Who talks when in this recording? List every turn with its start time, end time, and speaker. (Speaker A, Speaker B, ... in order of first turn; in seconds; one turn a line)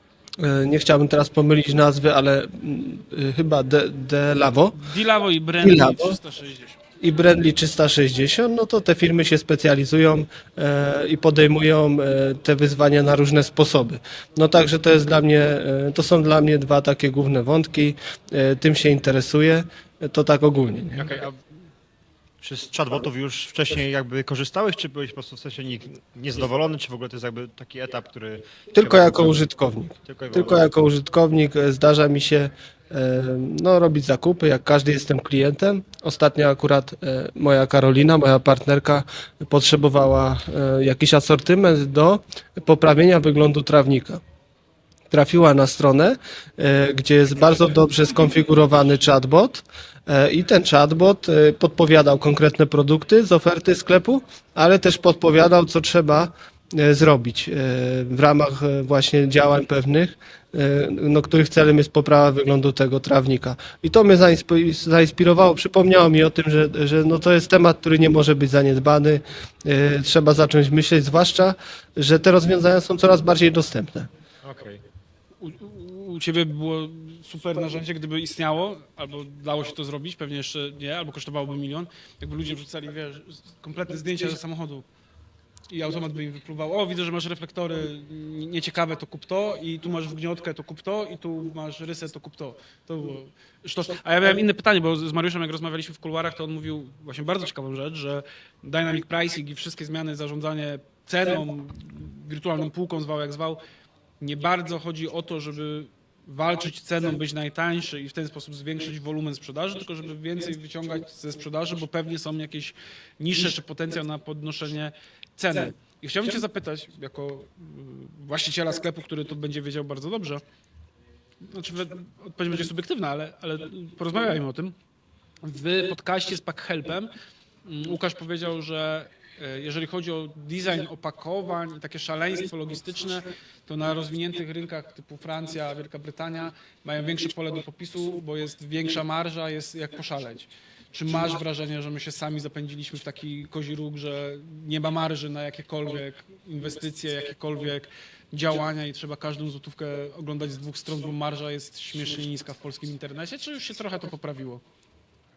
Speaker A: 0.4-4.8
Speaker B: 4.8-6.8
Speaker A: 5.6-6.2
Speaker A: 7.0-21.2
Speaker C: 21.0-21.3
Speaker C: 22.4-29.4
Speaker A: 28.7-44.2
Speaker C: 30.1-30.7
Speaker A: 45.1-74.1
Speaker C: 74.4-74.8
Speaker B: 75.4-84.8
Speaker B: 85.7-103.6
Speaker B: 104.2-120.4
Speaker B: 121.5-124.8
Speaker B: 125.4-127.1
Speaker B: 127.7-154.6